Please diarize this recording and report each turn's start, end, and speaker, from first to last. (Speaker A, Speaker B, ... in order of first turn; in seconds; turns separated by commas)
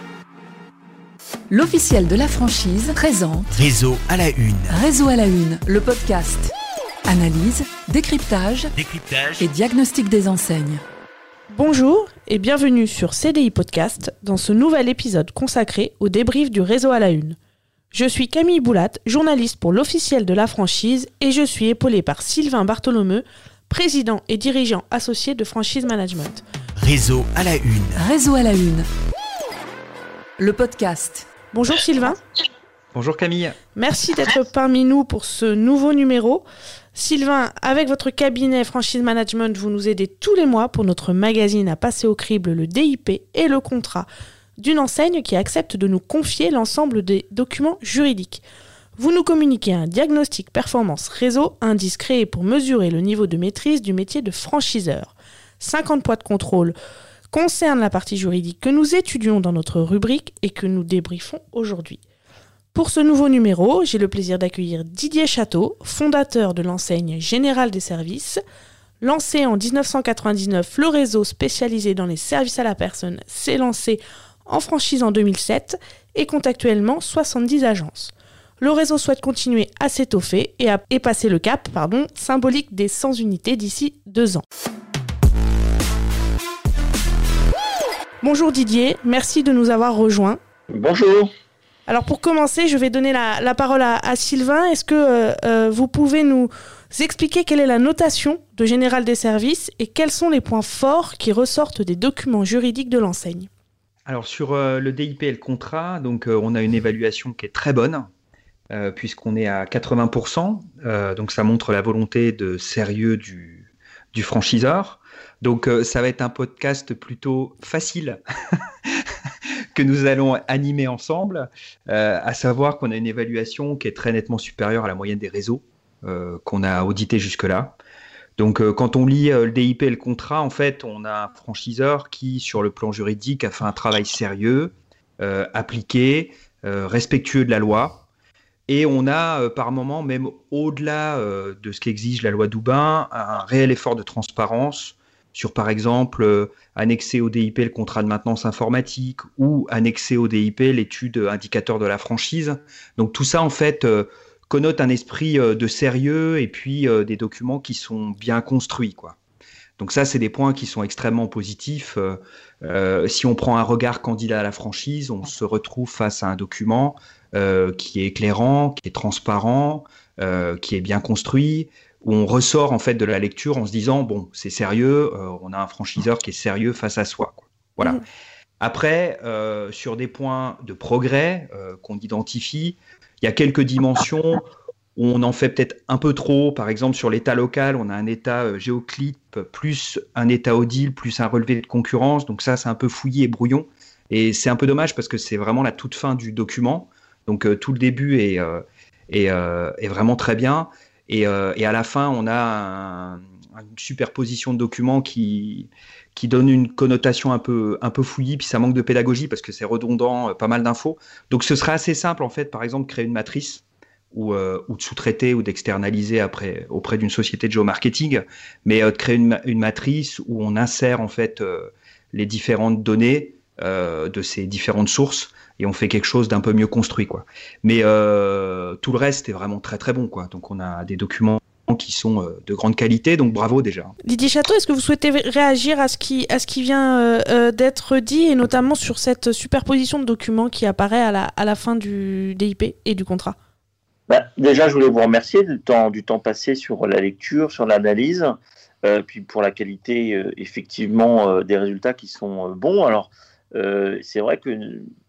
Speaker A: 1.5-3.5, Speaker B: 3.5-4.8, Speaker A: 4.7-6.5, Speaker A: 7.1-8.7, Speaker B: 8.8-9.5, Speaker A: 9.4-10.8, Speaker C: 11.5-17.4, Speaker C: 17.9-26.4, Speaker B: 26.8-28.1, Speaker A: 28.1-28.8, Speaker A: 30.4-31.2, Speaker C: 31.5-32.2, Speaker D: 32.9-33.6, Speaker C: 33.8-48.4, Speaker C: 49.0-56.8, Speaker C: 57.3-62.0, Speaker C: 62.7-68.4, Speaker C: 69.0-84.4, Speaker C: 88.2-90.4, Speaker E: 90.7-91.3, Speaker C: 91.9-103.5, Speaker D: 104.1-108.1, Speaker D: 108.7-118.2, Speaker D: 119.8-127.8, Speaker D: 128.4-138.0, Speaker D: 138.7-159.2, Speaker D: 159.8-178.0, Speaker D: 178.6-184.4, Speaker D: 185.0-233.9, Speaker C: 234.0-243.4, Speaker E: 244.1-254.9